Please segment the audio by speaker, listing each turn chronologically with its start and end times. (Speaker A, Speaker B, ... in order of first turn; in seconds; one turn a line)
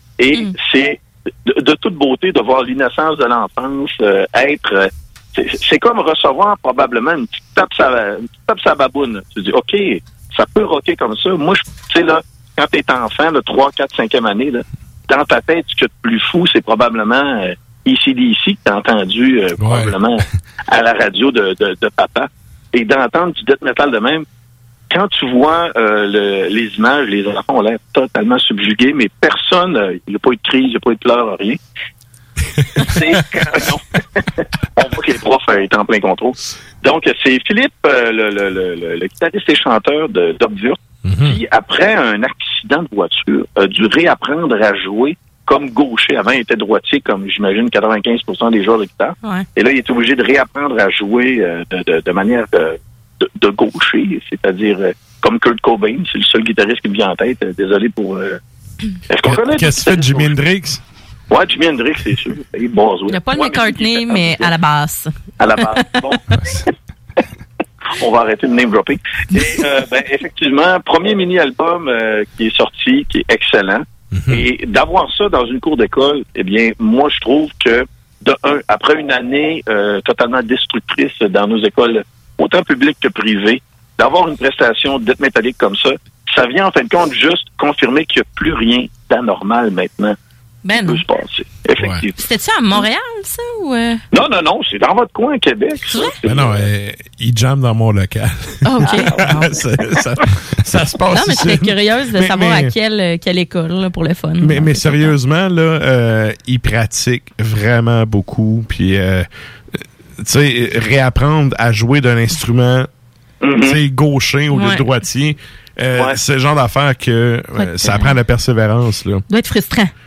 Speaker A: 0.2-24.2
Speaker B: 19.6-20.0
Speaker A: 24.9-31.6
Speaker A: 32.8-33.8
Speaker A: 34.8-58.4
Speaker B: 41.0-41.4
Speaker A: 59.1-60.3
Speaker B: 59.3-60.8
Speaker A: 61.3-64.5
Speaker C: 63.1-65.1
Speaker A: 65.4-66.2
Speaker A: 68.0-90.2
Speaker B: 74.1-74.5
Speaker C: 90.7-91.0
Speaker A: 90.7-92.1
Speaker B: 91.8-92.0
Speaker C: 92.2-94.0
Speaker A: 94.1-96.6
Speaker B: 96.2-102.7
Speaker C: 98.6-99.5
Speaker C: 101.1-105.1
Speaker B: 104.4-112.9
Speaker A: 113.4-113.8
Speaker B: 113.6-119.2
Speaker C: 114.5-114.8
Speaker C: 117.6-118.2
Speaker C: 119.3-119.9